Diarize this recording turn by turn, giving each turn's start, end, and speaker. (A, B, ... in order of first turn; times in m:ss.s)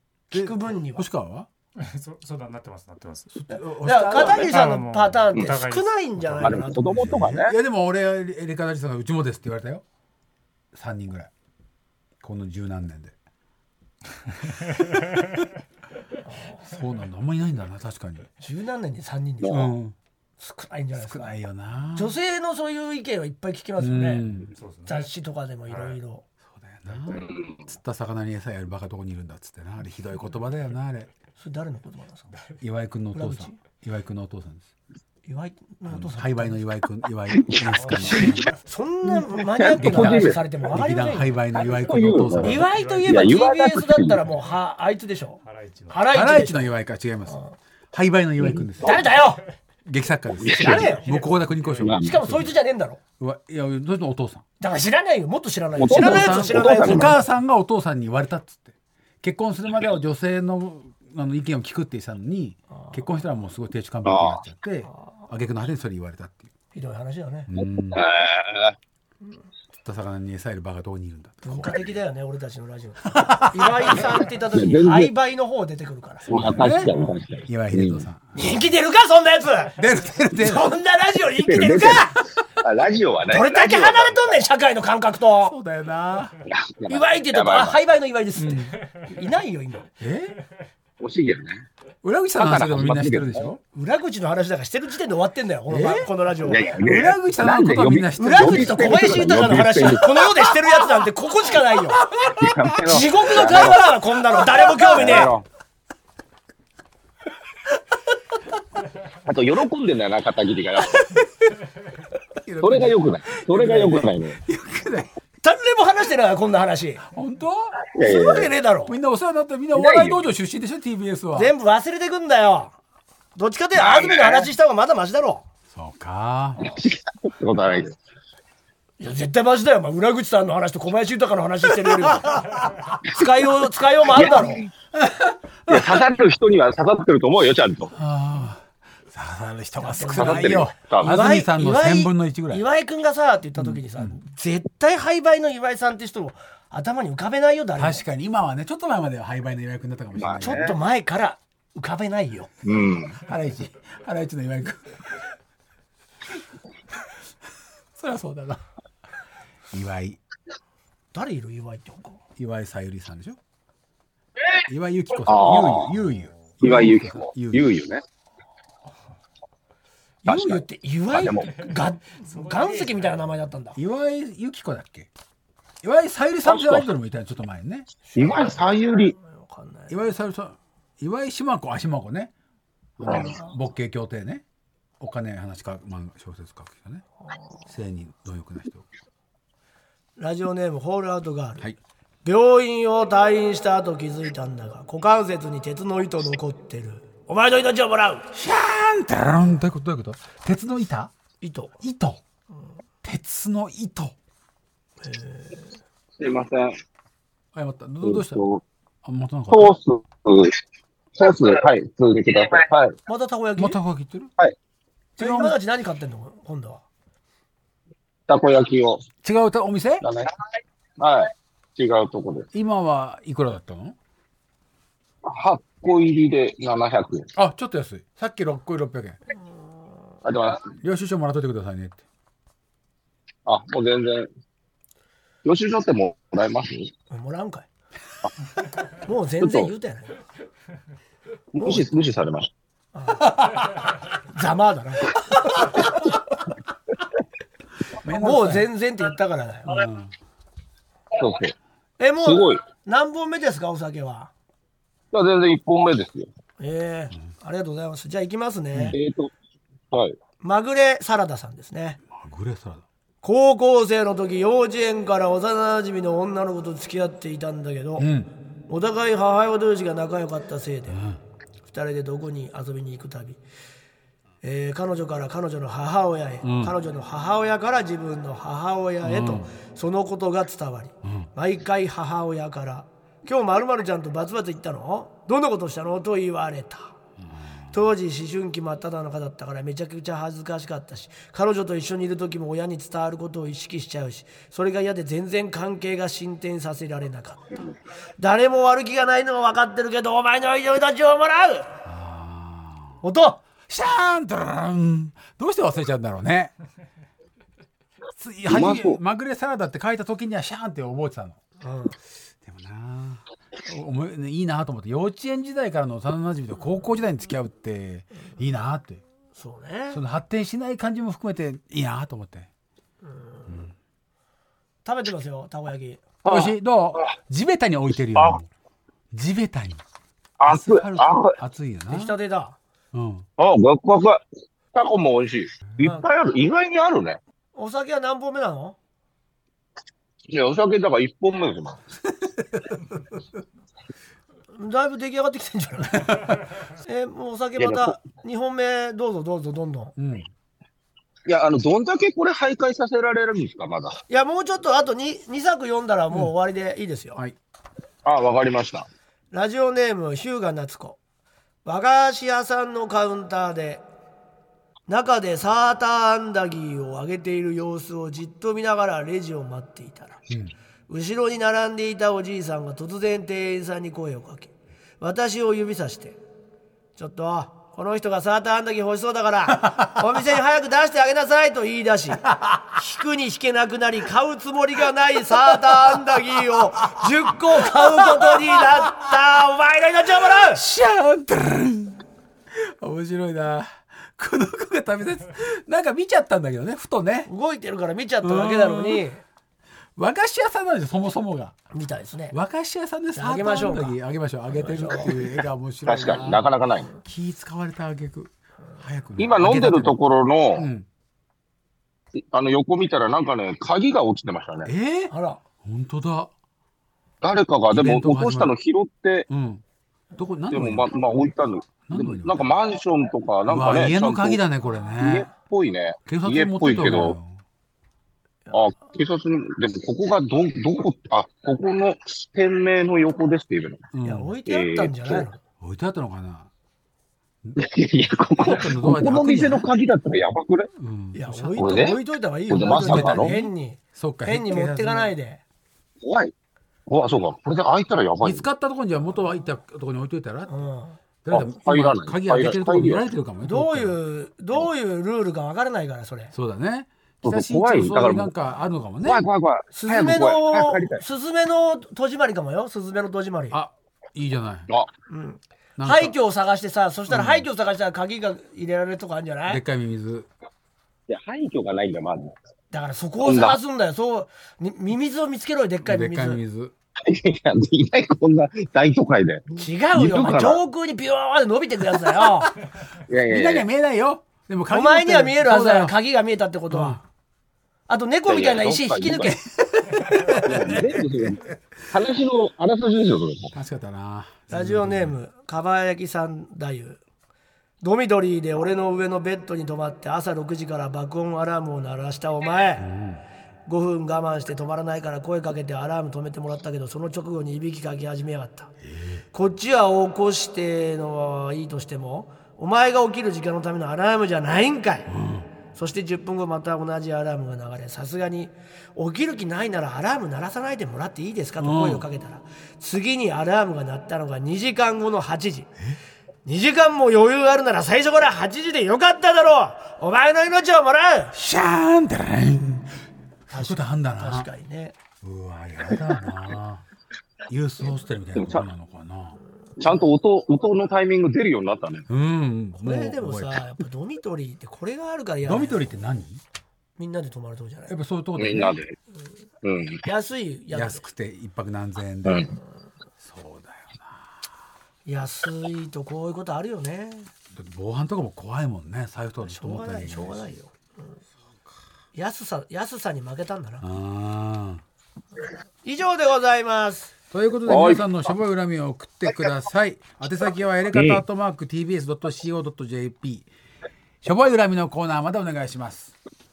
0:00.3-0:01.0 A
0:00.3-0:01.5 B
0:01.8-0:03.3 C
0:03.3-0:04.5 B
0:03.5-0:07.1 A
0:04.2-0:06.6 C
0:06.4-0:07.6 D
0:06.8-0:09.8 B
0:10.7-0:11.3 B
0:12.2-0:13.1 B
0:14.8-0:15.2 C
0:16.3-0:16.5 A
0:16.6-0:18.3 B
0:18.4-0:19.8 A
0:19.4-0:19.7 D
0:19.5-0:20.0 B
0:20.4-0:21.4 A
0:21.0-0:22.1 B
0:21.9-0:24.2 A
0:23.8-0:24.5 B
0:24.5-0:25.1 C
0:24.8-0:26.2 A
0:25.7-0:26.0 C
0:26.5-0:31.1 B
0:27.1-0:27.6 D
0:31.4-0:32.3 A
0:32.6-0:34.7 B
0:33.1-0:33.6 A
0:35.2-0:36.6 A
0:35.9-0:38.5 B
0:37.3-0:38.4 D
0:38.0-0:41.4 A
0:39.4-0:40.4 D
0:39.8-0:42.7 B
0:41.6-0:44.2 D
0:42.4-0:45.4 A
0:42.7-0:43.3 C
0:45.4-0:46.0 C
0:45.9-0:46.7 A
0:46.1-0:47.4 B
0:47.3-0:47.5 A
0:47.9-0:49.2 B
0:48.4-0:48.6 D
0:48.8-0:49.4 A
0:49.8-0:52.5 B
0:50.4-0:50.9 D
0:50.5-0:51.2 A
0:50.8-0:51.9 C
0:51.8-0:52.1 D
0:51.9-0:53.0 A
0:53.2-0:54.4 B
0:54.6-0:57.2 A
0:55.8-0:57.2 D
0:55.9-1:06.5 B
1:04.0-1:04.4 D
1:06.7-1:07.5 A
1:07.5-1:08.0 B
1:07.6-1:08.7 D
1:09.7-1:12.0 B
1:11.4-1:16.6 A
1:13.1-1:14.1 B
1:14.5-1:15.1 D
1:16.3-1:18.0 D
1:16.3-1:18.5 B
1:18.3-1:19.8 A
1:19.8-1:20.7 B
1:20.4-1:22.2 A
1:21.4-1:24.4 D
1:23.3-1:25.5 A
1:25.4-1:26.4 B
1:26.5-1:27.8 D
1:26.9-1:29.9 A
1:28.4-1:28.7 B
1:30.0-1:30.4 B
1:31.0-1:31.6 D
1:32.0-1:33.6 B
1:32.4-1:33.5 D
1:33.7-1:36.7 A
1:35.7-1:36.1 B
1:36.4-1:40.5 D
1:36.8-1:39.6 B
1:38.2-1:42.0 A
1:42.0-1:42.7 B
1:42.3-1:43.8 D
1:42.8-1:45.3 A
1:44.4-1:45.3 B
1:44.8-1:45.4 D
1:49.2-1:51.2 D
1:51.1-1:51.5 B
1:52.4-1:55.1 B
1:52.6-1:54.4 D
1:55.4-1:57.0 A
1:57.0-1:57.8 B
1:57.9-1:58.5 D
1:58.0-1:59.0 A
1:58.8-2:01.5 B
1:59.7-2:00.2 D
2:01.3-2:02.7 A
2:03.4-2:05.4 A
2:03.7-2:04.5 D
2:05.7-2:06.7 B
2:06.6-2:07.9 D
2:09.0-2:12.4 A
2:12.0-2:12.9 B
2:13.0-2:14.6 A
2:14.1-2:14.7 D
2:15.0-2:16.0 B
2:15.7-2:17.9 D
2:18.0-2:22.6 B
2:19.8-2:28.0 A
2:20.1-2:21.3 D
2:23.6-2:24.1 B
2:27.8-2:30.8 B
2:30.2-2:30.8 D
2:30.4-2:32.5 A
2:32.6-2:33.2 D
2:33.2-2:35.2 B
2:37.9-2:38.6 B
2:39.7-2:40.2 B
2:41.1-2:42.2 A
2:42.4-2:43.4 B
2:44.7-2:47.7 B
2:45.2-2:45.9 D
2:46.6-2:48.0 D
2:50.2-2:53.8 A
2:50.3-2:51.5 D
2:52.2-2:53.2 C
2:53.8-2:55.1 B
2:55.8-2:57.9 B
2:56.4-2:56.8 D
2:58.0-3:00.0 A
2:58.2-2:59.1 D
2:59.9-3:02.3 B
3:03.0-3:04.4 B
3:03.0-3:03.3 D
3:05.0-3:07.0 B
3:07.3-3:07.6 A
3:07.7-3:08.8 B
3:10.2-3:11.7 A
3:12.2-3:18.3 A
3:18.3-3:21.1 B
3:21.4-3:21.7 A
3:21.8-3:22.2 B
3:23.0-3:24.1 B
3:25.0-3:25.7 A
3:26.2-3:26.8 D
3:27.5-3:28.4 B
3:28.0-3:28.6 D
3:29.0-3:29.7 B
3:29.5-3:30.6 D
3:31.1-3:33.0 D
3:33.1-3:33.8 A
3:33.6-3:34.3 B
3:35.2-3:36.8 A
3:35.2-3:35.6 B
3:38.3-3:39.0 D
3:39.2-3:40.0 B
3:40.0-3:40.3 D
3:41.0-3:42.5 D
3:42.5-3:44.0 B
3:45.2-3:47.3 D
3:47.4-3:49.2 B
3:50.2-3:50.7 D
3:50.8-3:52.0 B
3:53.4-3:54.3 D
3:55.4-3:56.9 D
3:57.1-3:57.6 A
3:59.0-4:00.1 A
3:59.4-3:59.7 D
4:01.5-4:02.5 D
4:02.9-4:03.4 A
4:04.3-4:05.7 A
4:08.0-4:08.7 B
4:08.1-4:09.8 A
4:09.7-4:10.1 B
4:11.1-4:11.5 D
4:12.0-4:14.3 A
4:12.2-4:12.6 D
4:15.1-4:16.3 D
4:16.6-4:19.0 A
4:18.9-4:19.3 D
4:19.9-4:20.2 D
4:20.4-4:22.0 A
4:22.1-4:22.8 B
4:23.2-4:28.1 A
4:28.0-4:28.3 B
4:28.7-4:31.0 A
4:30.9-4:31.2 B
4:31.7-4:33.4 A
4:34.4-4:46.9 A
4:36.4-4:36.7 B
4:39.0-4:39.5 B
4:47.3-4:47.7 B
4:47.7-4:57.5 A
4:58.2-5:01.7 A
5:01.8-5:03.0 B
5:03.0-5:03.4 A
5:03.7-5:06.5 B
5:08.2-5:11.4 B
5:08.5-5:09.0 D
5:11.6-5:11.9 A
5:12.4-5:19.0 B
5:19.4-5:20.0 A
5:19.9-5:22.5 B
5:23.0-5:23.6 A
5:23.5-5:23.7 B
5:24.8-5:26.0 A
5:26.2-5:26.5 D
5:26.2-5:28.5 B
5:29.1-5:29.8 B
5:30.4-5:31.4 D
5:30.4-5:32.1 B
5:31.9-5:32.6 A
5:32.9-5:33.2 B
5:33.4-5:34.2 D
5:34.7-5:37.2 D
5:37.5-5:38.8 A
5:40.3-5:41.8 D
5:42.2-5:43.0 B
5:44.6-5:46.3 A
5:46.1-5:46.3 B
5:46.8-5:49.9 A
5:47.6-5:48.0 D
5:50.0-5:50.3 B
5:51.3-5:54.0 D
5:54.1-5:57.2 A
5:58.0-5:58.9 D
5:59.3-6:01.0 A
6:01.6-6:03.8 A
6:04.9-6:10.2 A
6:10.3-6:10.5 B
6:10.9-6:16.2 A
6:17.0-6:30.6 A
6:25.3-6:26.0 B
6:27.0-6:29.0 B
6:30.4-6:37.3 B
6:37.3-6:39.2 A
6:38.2-6:39.0 B
6:40.0-6:41.6 B
6:41.7-6:42.3 A
6:42.3-6:46.4 B
6:43.2-6:43.9 A
6:44.5-6:45.2 A
6:45.8-6:46.9 D
6:47.0-6:50.0 B
6:49.2-6:50.7 D
6:50.6-6:50.8 B
6:52.2-6:54.7 D
6:54.6-6:55.1 B
6:55.1-6:55.4 A
6:55.6-6:56.3 B
6:57.2-6:59.3 D
6:57.7-6:58.5 B
6:59.3-6:59.6 B
7:00.2-7:00.9 B
7:00.5-7:04.4 D
7:01.9-7:02.5 B
7:03.4-7:05.3 B
7:05.0-7:07.1 D
7:06.1-7:07.4 B
7:08.5-7:13.8 D
7:13.9-7:14.3 B
7:14.0-7:15.4 A
7:14.4-7:15.3 D
7:15.6-7:16.5 B
7:17.6-7:20.7 D
7:18.4-7:19.7 B
7:20.8-7:21.8 B
7:21.1-7:25.4 A
7:21.6-7:23.4 D
7:22.6-7:25.1 B
7:26.0-7:26.3 D
7:26.9-7:28.4 D
7:28.2-7:30.5 B
7:30.5-7:31.0 A
7:31.2-7:34.0 B
7:31.3-7:33.1 D
7:33.4-7:36.3 A
7:36.3-7:39.2 B
7:37.2-7:38.3 D
7:39.0-7:41.0 D
7:39.7-7:43.6 A
7:43.5-7:44.7 B
7:45.1-7:49.6 A
7:45.8-7:46.2 B
7:47.1-7:47.5 B
7:49.5-7:50.3 B
7:51.1-7:52.3 D
7:52.7-7:56.4 A
7:53.2-7:53.6 D
7:55.8-7:56.7 B
7:57.0-8:00.6 D
7:59.6-8:02.5 A
8:03.1-8:03.7 D
8:03.2-8:06.0 B
8:04.7-8:07.0 A
8:06.7-8:07.0 B
8:07.9-8:09.3 A
8:08.3-8:09.3 D
8:09.2-8:11.0 B
8:10.4-8:13.5 D
8:13.5-8:15.2 B
8:14.5-8:17.0 A
8:17.8-8:22.9 A
8:22.8-8:23.2 B
8:23.6-8:28.7 A
8:28.8-8:29.2 B
8:29.3-8:35.1 A
8:35.1-8:35.5 B
8:35.7-8:45.7 A
8:41.6-8:42.0 B
8:46.4-8:51.3 A
8:51.3-8:52.9 B
8:53.5-8:54.5 B
8:53.5-8:54.9 A
8:55.2-8:56.8 B
8:57.5-8:59.4 B
8:58.4-8:58.6 D
8:59.8-9:02.0 D
9:02.1-9:03.6 B
9:02.8-9:05.9 A
9:05.4-9:06.4 B
9:07.0-9:07.9 A
9:07.9-9:08.8 B
9:08.4-9:09.0 D
9:09.6-9:10.0 D
9:10.0-9:11.0 A
9:10.7-9:12.5 B
9:12.2-9:12.5 D
9:13.2-9:14.4 B
9:15.0-9:17.3 A
9:17.5-9:20.4 B
9:19.4-9:21.1 A
9:22.1-9:23.9 A
9:23.8-9:24.8 B
9:25.8-9:27.1 A
9:27.3-9:33.5 B
9:27.7-9:28.0 D
9:30.9-9:31.2 D
9:34.2-9:36.1 B